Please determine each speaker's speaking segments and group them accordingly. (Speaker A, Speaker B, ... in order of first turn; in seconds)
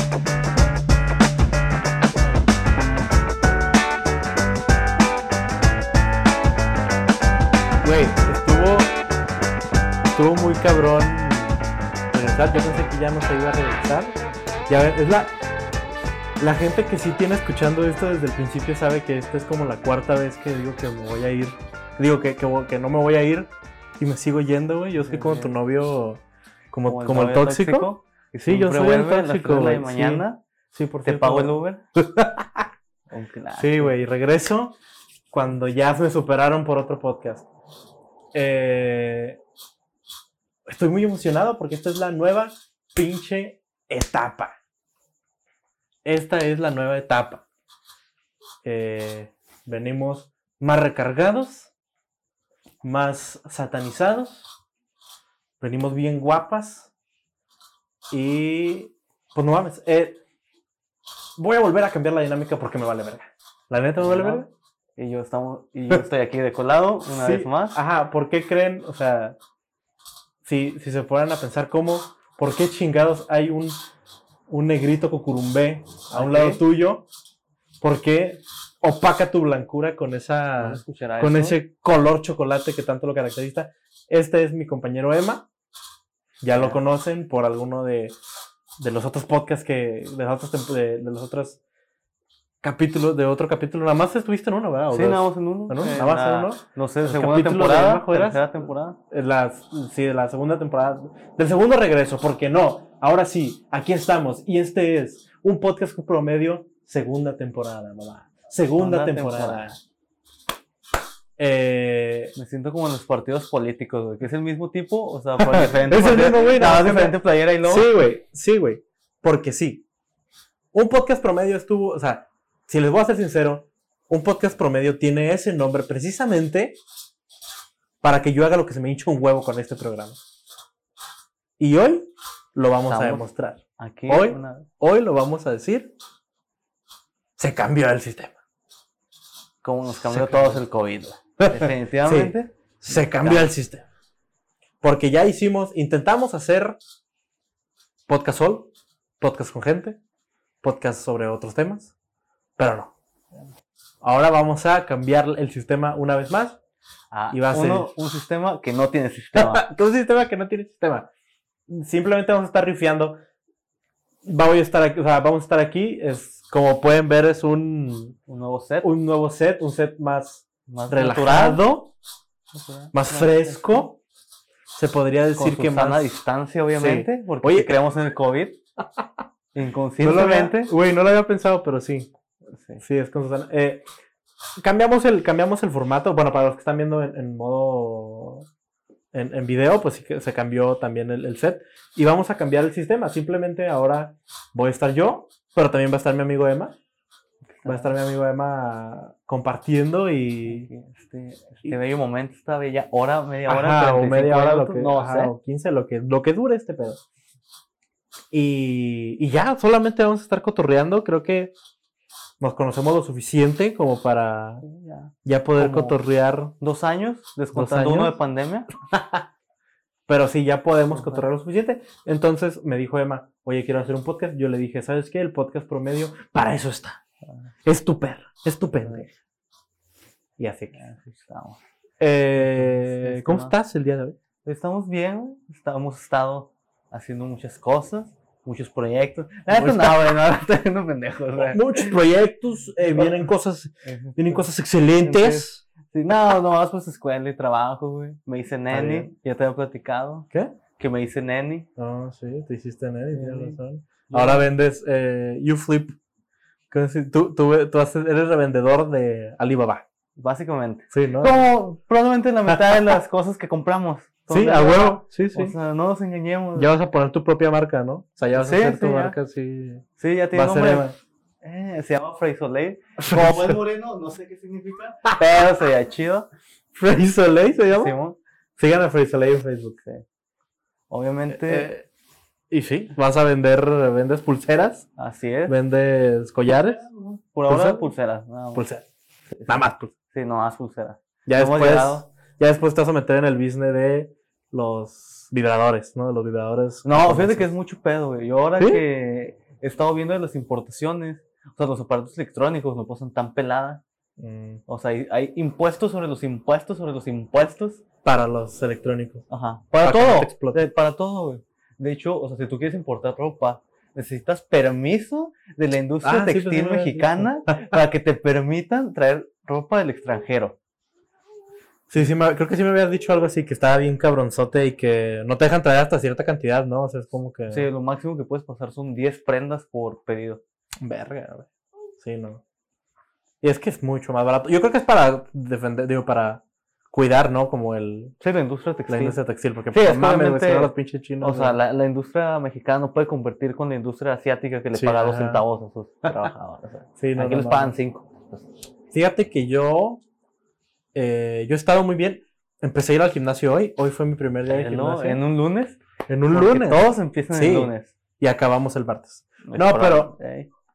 Speaker A: 7.8-8.9, 10.1-11.6, 12.1-14.2, 14.7-15.3, 16.4-27.9, 28.4-32.7, 33.5-34.7, 35.3-37.4, 38.3-39.4, 40.7-44.5, 46.0-47.4, 48.6-51.7, 52.8-54.5, 55.6-56.9, 58.1-60.2, 61.4-64.5, 67.1-69.4, 70.4-73.8, 74.5-77.0, 77.8-85.5, 86.4-88.1, 88.8-91.6, 92.6-109.8, 111.4-112.3, 115.4-119.8, 120.7-126.8, 128.0-130.2, 131.6-135.9, 137.4-138.3, 139.9-140.6, 141.4-143.8, 144.8-146.8, 148.1-148.7, 149.2-150.0, 150.6-151.9, 152.6-152.9, 154.0-156.6, 157.3-157.9, 159.3-161.1, 161.7-163.2, 164.2-168.2, 168.8-171.9, 172.9-174.0, 174.7-176.1, 176.8-177.8, 180.0-182.1, 182.8-183.8, 184.6-188.5, 189.1-196.7, 197.6-200.7, 203.5-207.0, 208.3-211.5, 212.4-214.6, 215.2-216.5, 217.5-218.2, 218.8-219.2, 220.1-227.0, 227.6-229.1, 230.4-230.9, 232.0-234.2, 239.5-240.1, 241.4-245.6, 248.7-249.1, 251.8-255.9, 256.7-259.8, 260.9-261.5, 264.3-265.6, 266.6-271.0, 273.0-273.6, 276.7-277.9, 278.6-279.8, 281.3-281.8, 282.5-284.9, 285.5-286.8, 287.5-287.9, 288.5-288.8, 289.4-289.9, 291.2-297.5, 304.2-304.6, 308.0-309.2, 309.8-310.6, 316.0-317.8, 321.9-327.7, 330.8-331.5, 332.0-332.4, 333.4-336.4, 336.9-338.1, 338.9-341.6, 344.7-345.4, 346.0-346.3, 347.0-347.7, 348.9-350.0, 350.9-355.2, 356.1-360.1
Speaker B: 25.0-25.5, 26.9-30.4, 31.0-31.8, 33.1-33.9, 64.0-67.8, 76.1-76.6, 80.6-81.6, 86.5-86.8, 94.9-99.0, 108.8-109.7, 112.3-118.1, 132.9-134.7, 139.6-143.5, 157.1-159.7, 168.3-168.9, 170.7-171.6, 172.5-173.9, 175.3-178.6, 179.5-180.7, 182.6-182.8, 197.5-197.9, 200.4-205.3, 214.6-215.9, 216.6-218.7, 220.9-221.2, 230.8-231.6, 232.4-233.5, 234.4-241.9, 242.9-243.2, 243.8-244.5, 245.0-251.7, 253.1-253.6, 254.1-254.5, 260.2-266.7, 268.3-269.2, 270.0-270.9, 271.4-276.3, 277.6-278.2, 280.9-281.7, 285.0-285.5, 286.4-288.6, 289.3-292.1, 296.8-303.8, 304.7-307.8, 309.3-320.6, 327.5-330.4, 338.2-339.2, 339.7-348.4, 354.5-357.9, 359.4-360.5